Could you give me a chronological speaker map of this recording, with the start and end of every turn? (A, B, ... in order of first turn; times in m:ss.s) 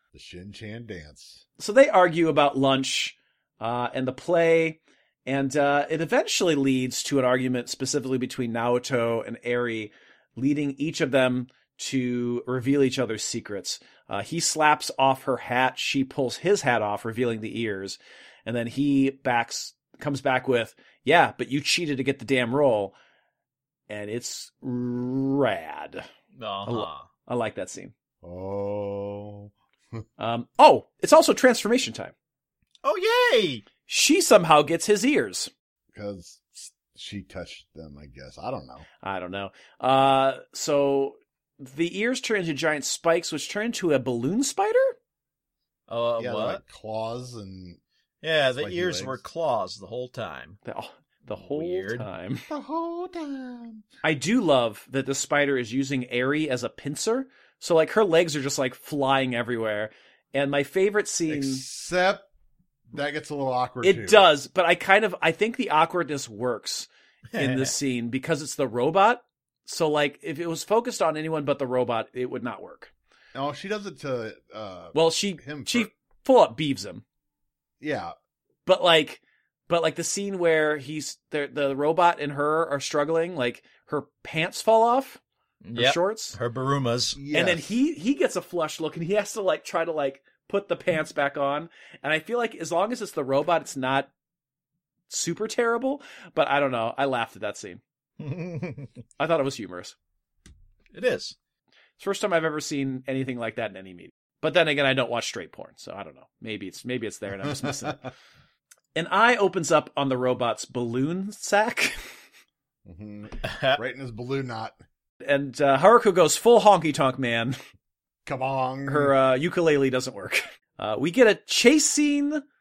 0:00.1-0:01.4 A
0:01.6-0:23.0 B
0:23.9-0:26.1 B
0:26.4-0:27.1 C
0:26.7-0:27.9 B
0:28.2-0:30.0 A
0:30.2-0:32.1 B
0:32.8-0:33.6 C
0:33.9-0:35.5 B
0:35.9-0:38.9 A
0:39.0-0:45.0 B
0:45.9-0:46.6 C
0:46.2-0:47.8 A
0:48.2-0:50.6 C
0:48.6-0:49.2 A
0:50.6-0:52.5 B
0:51.3-0:52.1 C
0:52.5-0:53.8 A
0:54.0-1:01.6 B
1:01.3-1:02.3 A
1:02.9-1:04.3 A
1:03.8-1:12.9 B
1:07.3-1:07.7 C
1:13.4-1:15.9 A
1:14.9-1:17.0 B
1:17.8-1:18.1 A
1:18.7-1:25.2 B
1:25.6-1:27.2 C
1:25.8-1:26.4 B
1:27.2-1:27.8 A
1:27.3-1:34.1 B
1:35.1-1:37.8 B
1:38.2-1:38.9 C
1:39.2-1:40.0 B
1:40.9-1:41.4 C
1:42.0-1:48.1 B
1:47.4-1:47.9 A
1:49.0-1:52.0 B
1:52.9-1:54.8 A
1:53.4-1:53.8 C
1:55.2-1:57.6 B
1:58.3-1:59.1 A
1:58.9-2:02.4 B